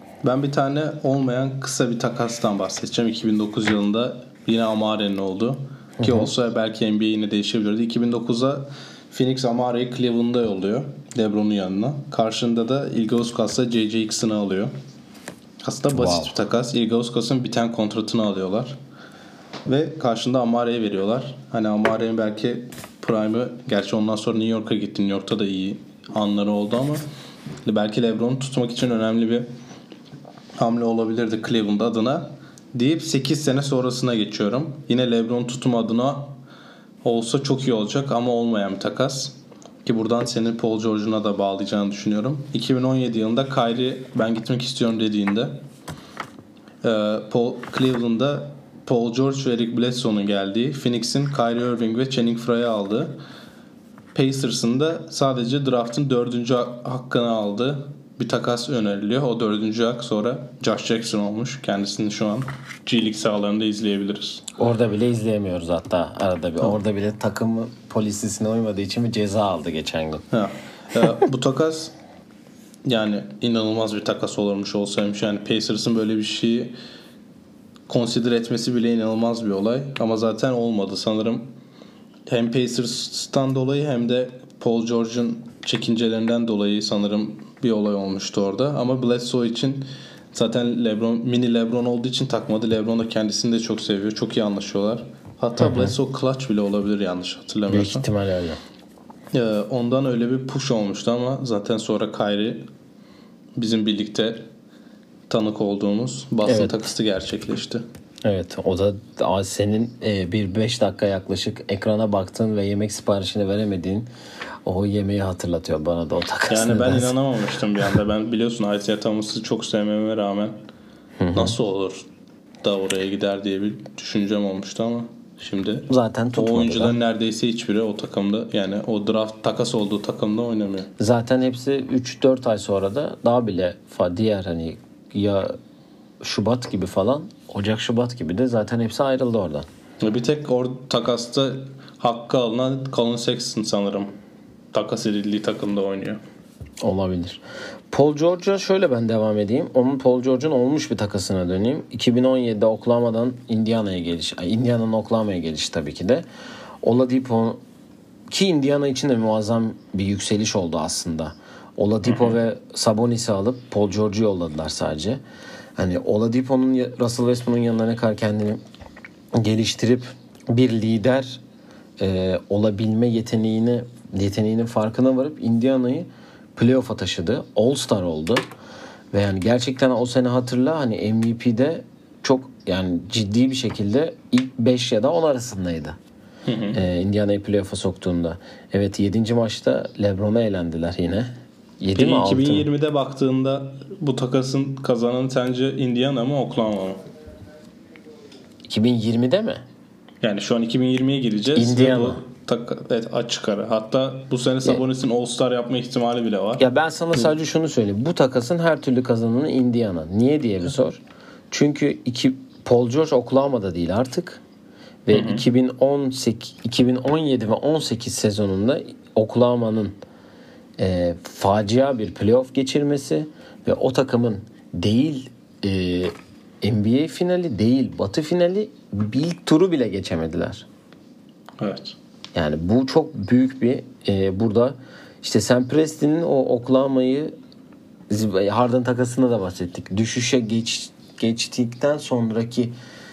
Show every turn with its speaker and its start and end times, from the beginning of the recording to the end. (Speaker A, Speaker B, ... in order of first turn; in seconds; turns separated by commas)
Speaker A: 0.2-14.7, Speaker B: 6.0-6.3, Speaker A: 15.6-18.8, Speaker B: 15.9-16.3, Speaker A: 19.6-27.1, Speaker A: 27.6-29.5, Speaker A: 30.6-36.3, Speaker A: 37.0-45.6, Speaker A: 46.8-53.2, Speaker A: 54.1-64.4, Speaker B: 64.5-70.2, Speaker A: 70.3-71.9, Speaker A: 72.8-76.7, Speaker A: 77.9-81.5, Speaker A: 82.3-98.1, Speaker B: 95.6-95.9, Speaker B: 97.7-98.6, Speaker A: 99.3-102.7, Speaker A: 103.5-104.5, Speaker A: 105.3-107.8, Speaker B: 106.5-106.8, Speaker B: 108.2-114.1, Speaker B: 114.6-117.1, Speaker A: 116.5-120.5, Speaker B: 121.2-121.5, Speaker A: 121.3-122.1, Speaker A: 122.6-130.9, Speaker B: 125.9-127.0, Speaker B: 131.0-135.6, Speaker B: 136.2-139.7, Speaker A: 140.0-144.2, Speaker A: 144.7-146.2, Speaker B: 146.8-156.2, Speaker B: 156.8-157.6, Speaker B: 158.3-165.2, Speaker A: 162.0-162.3, Speaker B: 165.8-168.6, Speaker B: 169.3-171.4, Speaker B: 172.0-178.4, Speaker B: 179.1-186.0, Speaker A: 186.4-186.8, Speaker B: 186.7-192.7, Speaker A: 191.9-197.0, Speaker B: 198.7-199.6, Speaker A: 200.2-206.6, Speaker B: 201.5-202.2, Speaker B: 206.6-214.4, Speaker B: 215.1-219.9, Speaker A: 215.1-215.4, Speaker B: 220.8-230.7, Speaker A: 231.6-231.9, Speaker B: 232.3-237.3, Speaker B: 238.1-242.7